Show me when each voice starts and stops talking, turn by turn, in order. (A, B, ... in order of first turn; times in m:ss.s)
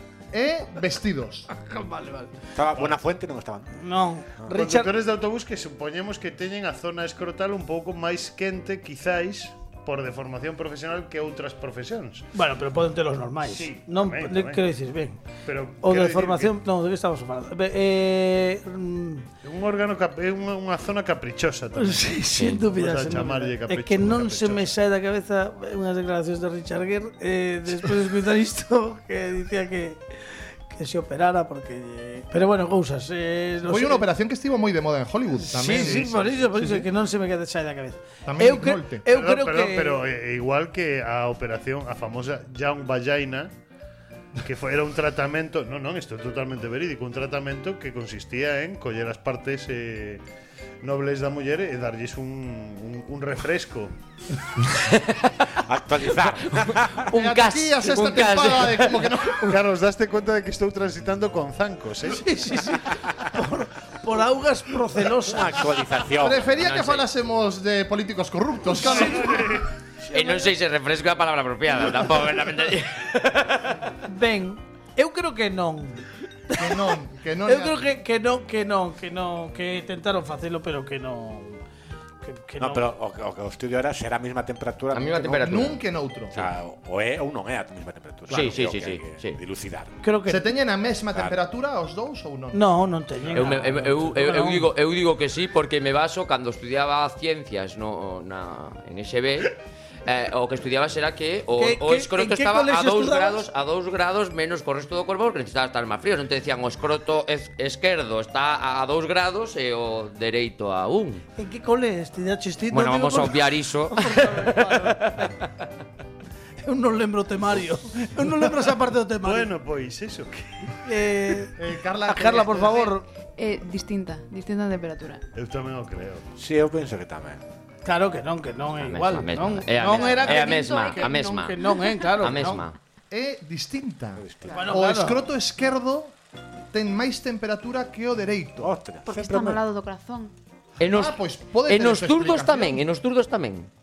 0:00.3-0:01.5 A
0:01.6-0:02.3 B
0:02.6-0:03.7 C
0:03.7-0:04.9 B
0:04.5-0:12.3 D
0:12.3-0:15.2 B
0:13.5-0:14.6 D
0:15.4-0:16.5 D
0:15.8-0:19.3 B
0:19.4-0:24.7 D
0:21.8-0:30.0 B
0:22.4-0:22.6 E
0:30.7-0:34.1 B
0:33.6-0:36.9 A
0:35.4-0:40.0 B
0:35.6-0:36.3 D
0:38.2-0:39.0 A
0:39.1-0:43.5 D
0:44.4-0:50.2 D
0:50.8-0:53.9 D
0:54.7-0:55.3 E
0:55.6-0:57.1 C
0:56.1-0:59.2 E
0:57.1-0:59.6 A
0:59.4-1:02.4 D
1:02.1-1:05.7 B
1:05.2-1:06.9 C
1:06.2-1:09.6 A
1:08.9-1:09.4 B
1:08.9-1:09.7 D
1:10.1-1:10.5 B
1:10.1-1:13.8 E
1:14.0-1:16.9 B
1:16.6-1:17.8 A
1:17.4-1:21.6 B
1:22.2-1:22.9 B
1:22.6-1:25.7 C
1:24.9-1:25.8 E
1:25.4-1:26.5 A
1:26.3-1:29.9 C
1:28.3-1:29.4 E
1:30.0-1:30.4 B
1:30.3-1:32.6 A
1:32.5-1:34.7 B
1:33.3-1:51.2 E
1:41.6-1:43.4 B
1:51.4-1:55.3 B
1:52.7-1:55.5 E
1:56.6-1:59.5 B
1:59.2-2:00.8 D
2:00.8-2:01.5 B
2:01.6-2:03.0 A
2:02.1-2:03.1 B
2:03.4-2:05.2 F
2:05.4-2:06.2 D
2:06.4-2:07.4 C
2:07.8-2:12.6 B
2:08.8-2:11.6 E
2:09.8-2:12.2 F
2:12.2-2:12.8 E
2:13.1-2:16.1 A
2:14.2-2:14.7 C
2:14.5-2:15.2 B
2:16.7-2:18.7 A
2:18.6-2:19.6 C
2:19.0-2:20.3 F
2:20.8-2:23.7 E
2:20.9-2:22.8 A